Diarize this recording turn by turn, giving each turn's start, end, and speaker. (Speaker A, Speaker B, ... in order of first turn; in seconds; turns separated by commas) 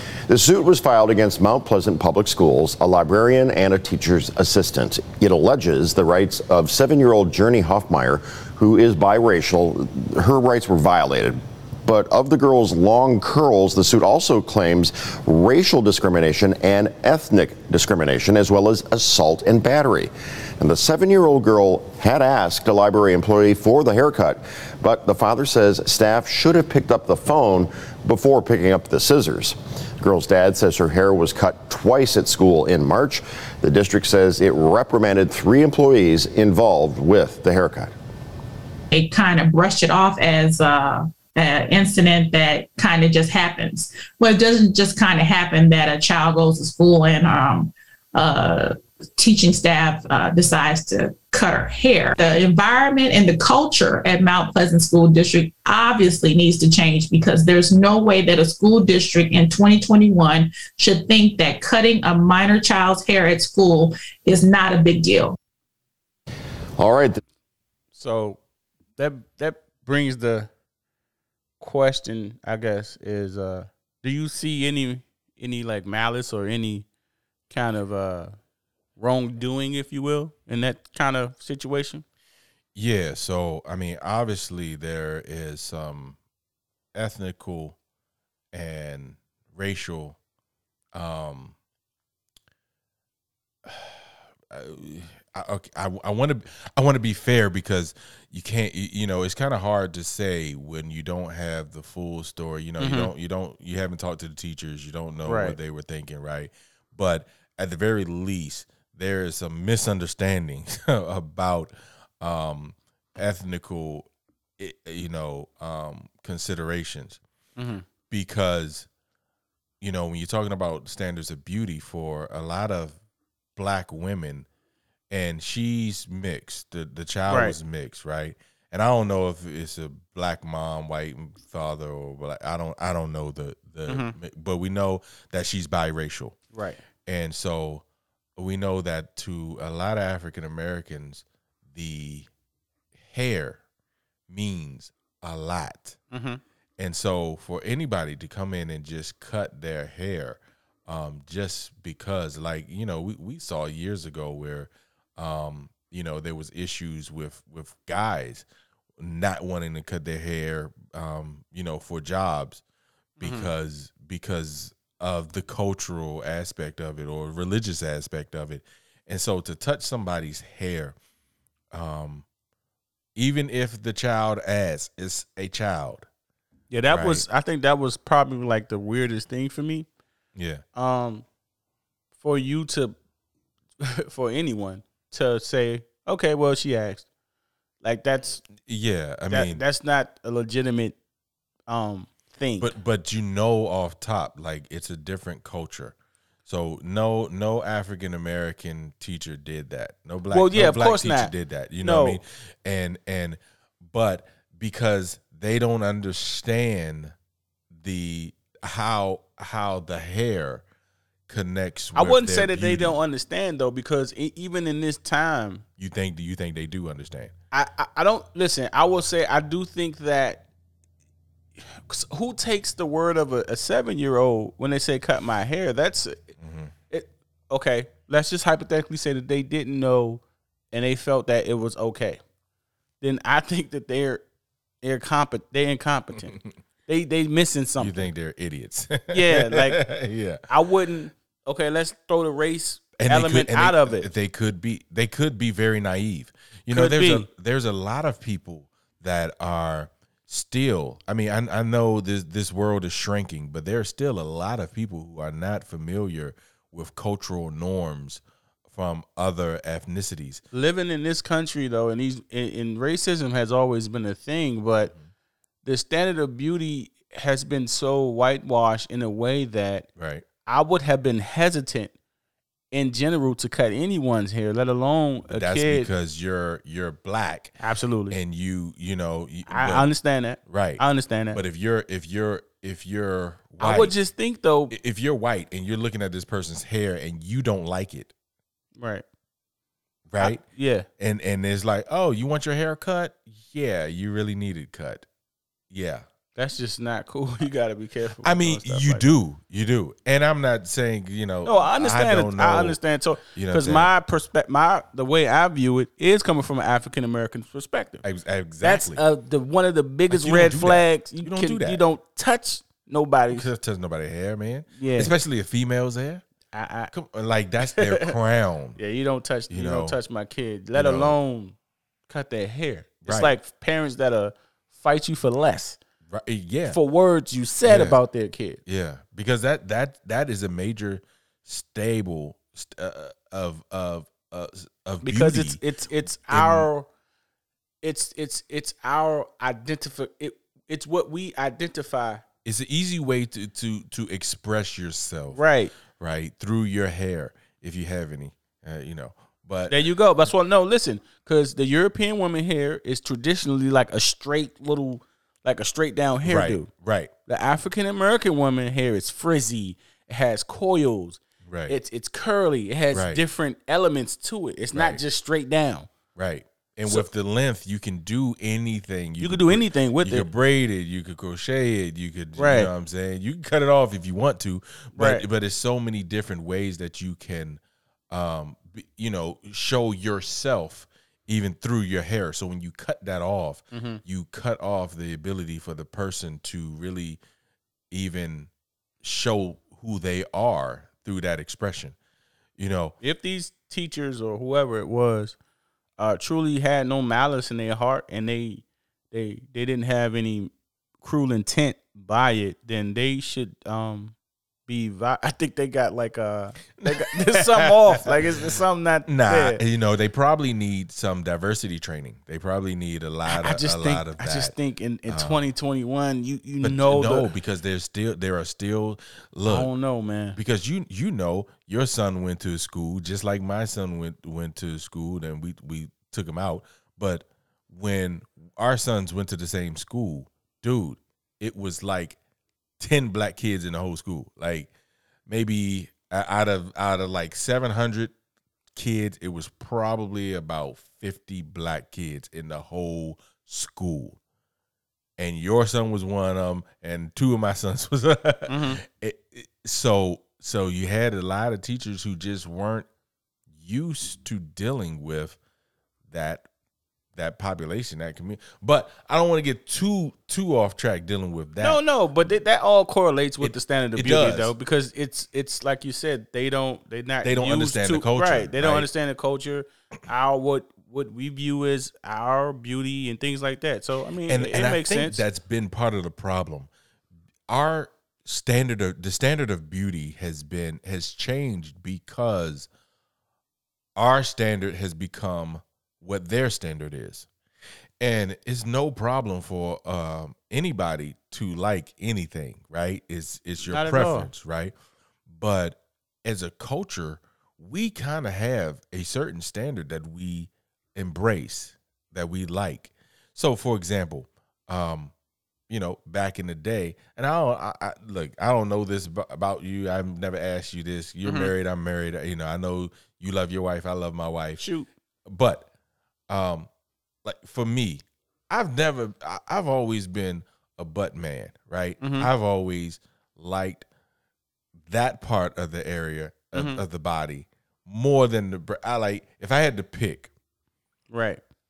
Speaker A: 0.3-37.9, Speaker B: 38.9-65.4, Speaker A: 66.8-67.2, Speaker C: 68.0-68.4, Speaker C: 69.0-70.5, Speaker C: 71.6-76.9, Speaker C: 77.5-78.3, Speaker C: 79.0-82.0, Speaker D: 82.8-86.2, Speaker D: 86.9-87.8, Speaker D: 88.5-90.2, Speaker D: 90.9-91.5, Speaker D: 93.6-117.2, Speaker C: 102.8-103.1, Speaker C: 105.3-105.6, Speaker C: 117.6-117.8, Speaker D: 118.1-118.9, Speaker D: 119.8-123.0, Speaker D: 123.6-124.5, Speaker D: 125.1-136.4, Speaker C: 127.3-127.6, Speaker C: 133.9-134.2, Speaker C: 136.5-136.8, Speaker D: 137.1-137.8, Speaker D: 138.4-142.3, Speaker D: 143.0-143.6, Speaker D: 144.3-146.0, Speaker C: 146.1-146.4, Speaker D: 146.8-158.5, Speaker D: 159.0-162.6, Speaker D: 163.2-171.0, Speaker C: 163.2-163.5, Speaker D: 171.7-172.3, Speaker D: 173.2-176.1, Speaker C: 176.7-179.9, Speaker D: 176.9-177.2, Speaker D: 180.3-180.6, Speaker C: 180.8-181.2, Speaker C: 182.2-182.9, Speaker C: 183.8-187.1, Speaker C: 187.8-188.4, Speaker D: 188.6-189.6, Speaker C: 189.3-191.0, Speaker C: 191.7-192.7, Speaker D: 192.6-195.9, Speaker D: 196.5-207.2, Speaker C: 200.3-202.2, Speaker D: 207.7-210.6, Speaker D: 211.3-213.0, Speaker C: 211.9-215.6, Speaker D: 215.8-217.3, Speaker C: 217.5-220.5, Speaker C: 221.7-226.2, Speaker D: 226.4-226.7, Speaker C: 226.9-232.2, Speaker C: 233.0-234.2, Speaker C: 234.8-238.1, Speaker D: 237.8-240.5, Speaker C: 239.1-239.8, Speaker C: 240.5-244.1, Speaker D: 243.0-260.4, Speaker C: 246.7-247.3, Speaker C: 260.5-264.9, Speaker C: 265.6-269.9, Speaker D: 270.0-270.3, Speaker C: 270.4-271.9, Speaker C: 272.7-275.9, Speaker D: 275.3-277.6, Speaker C: 277.6-278.2, Speaker D: 278.1-279.9, Speaker C: 279.5-281.4, Speaker D: 280.5-280.8, Speaker D: 281.3-283.9, Speaker C: 283.6-284.7, Speaker D: 284.7-288.1, Speaker C: 288.8-289.0, Speaker D: 290.1-290.4, Speaker C: 290.2-290.9, Speaker D: 291.0-295.1, Speaker D: 295.7-296.1, Speaker C: 296.4-299.1, Speaker D: 298.2-302.8, Speaker C: 301.4-308.0, Speaker D: 303.3-303.9, Speaker D: 308.0-309.0, Speaker C: 308.6-313.5, Speaker D: 310.1-311.8, Speaker D: 313.3-316.2, Speaker C: 314.8-315.1, Speaker C: 316.5-316.9, Speaker D: 316.9-318.8, Speaker C: 317.6-318.1, Speaker C: 318.8-321.6, Speaker D: 319.5-320.0, Speaker D: 320.7-321.2, Speaker C: 322.1-325.8, Speaker D: 323.0-323.3, Speaker D: 326.1-326.8, Speaker C: 326.7-328.6, Speaker D: 327.6-328.0, Speaker D: 328.7-335.6, Speaker C: 335.0-336.9, Speaker D: 336.3-336.7, Speaker C: 337.8-342.2, Speaker D: 342.4-345.4, Speaker C: 345.3-345.7, Speaker D: 346.0-349.9, Speaker C: 349.7-356.7, Speaker D: 356.2-357.1, Speaker C: 357.3-365.9, Speaker D: 361.5-361.8, Speaker D: 362.9-363.2, Speaker D: 364.7-365.0, Speaker D: 366.2-377.6, Speaker C: 369.2-370.3, Speaker C: 372.4-372.7, Speaker C: 375.0-375.2, Speaker D: 378.1-387.2, Speaker C: 383.7-384.0, Speaker D: 387.9-388.5, Speaker D: 389.0-391.9, Speaker D: 392.6-393.0, Speaker C: 393.0-395.4, Speaker C: 396.0-404.1, Speaker C: 404.7-409.6, Speaker D: 406.8-408.2, Speaker D: 409.1-414.5, Speaker C: 413.3-417.3, Speaker D: 415.1-415.5, Speaker D: 416.6-419.7, Speaker C: 419.5-420.4, Speaker D: 420.4-432.2, Speaker D: 432.8-434.7, Speaker D: 435.3-438.1, Speaker D: 438.8-444.2, Speaker D: 445.2-452.9, Speaker C: 448.5-448.8, Speaker D: 453.6-455.4, Speaker D: 456.1-456.5, Speaker D: 457.2-461.8, Speaker C: 461.6-475.2, Speaker D: 463.4-464.5, Speaker D: 467.2-468.9, Speaker D: 474.3-476.7, Speaker D: 477.5-482.7, Speaker D: 484.0-487.3, Speaker D: 488.0-494.7, Speaker C: 493.7-494.3, Speaker D: 495.3-505.1, Speaker D: 505.7-514.6, Speaker C: 511.2-511.5, Speaker C: 514.6-514.9, Speaker D: 515.3-515.7, Speaker D: 516.3-516.7, Speaker D: 517.2-523.9, Speaker C: 522.0-522.3, Speaker D: 524.9-530.3, Speaker C: 526.5-526.8, Speaker C: 531.1-531.4